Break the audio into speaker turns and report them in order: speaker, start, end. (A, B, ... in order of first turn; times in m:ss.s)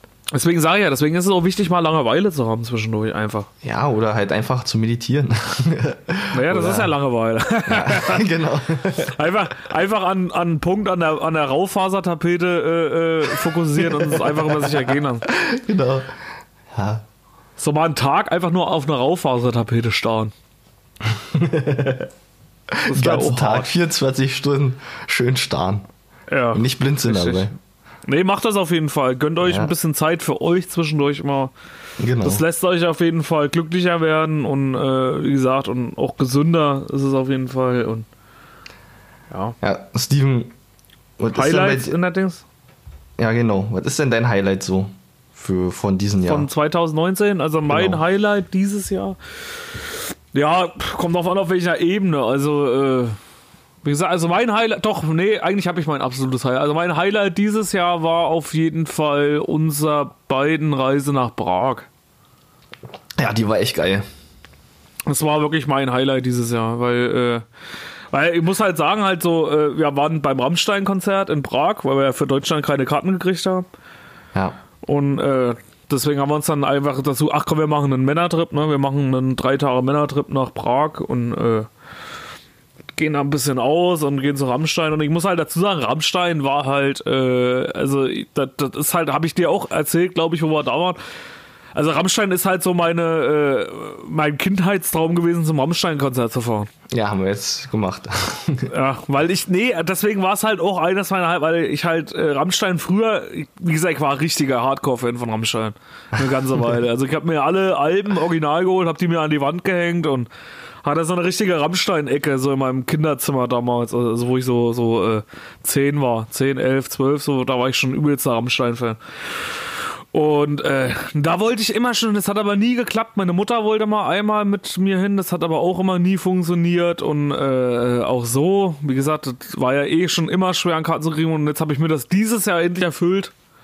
0:00.3-0:03.5 A
0:03.6-0:06.9 B
0:06.3-0:08.3 A
0:07.7-0:09.1 B
0:09.0-0:15.3 A
0:13.8-0:16.2 B
0:16.7-0:17.0 B
0:17.6-0:20.3 A
0:21.0-0:22.1 B
0:22.7-0:25.8 B
0:22.9-0:23.7 A
0:26.3-0:27.5 A
0:26.5-0:27.5 B
0:28.1-0:31.5 A
0:29.4-0:29.7 B
0:32.0-0:32.4 B
0:32.2-0:38.1 A
0:39.6-0:40.5 B
0:41.2-0:42.0 B
0:41.3-0:42.4 A
0:43.2-0:46.5 B
0:46.2-0:53.2 A
0:47.7-0:48.0 B
0:53.8-1:01.9 A
1:03.2-1:04.0 B
1:05.1-1:07.4 A
1:08.1-1:13.7 A
1:14.8-1:21.7 A
1:22.9-1:31.0 A
1:31.7-1:36.7 A
1:36.9-1:38.7 B
1:38.7-1:50.3 A
1:50.8-1:59.5 A
2:00.1-2:13.3 A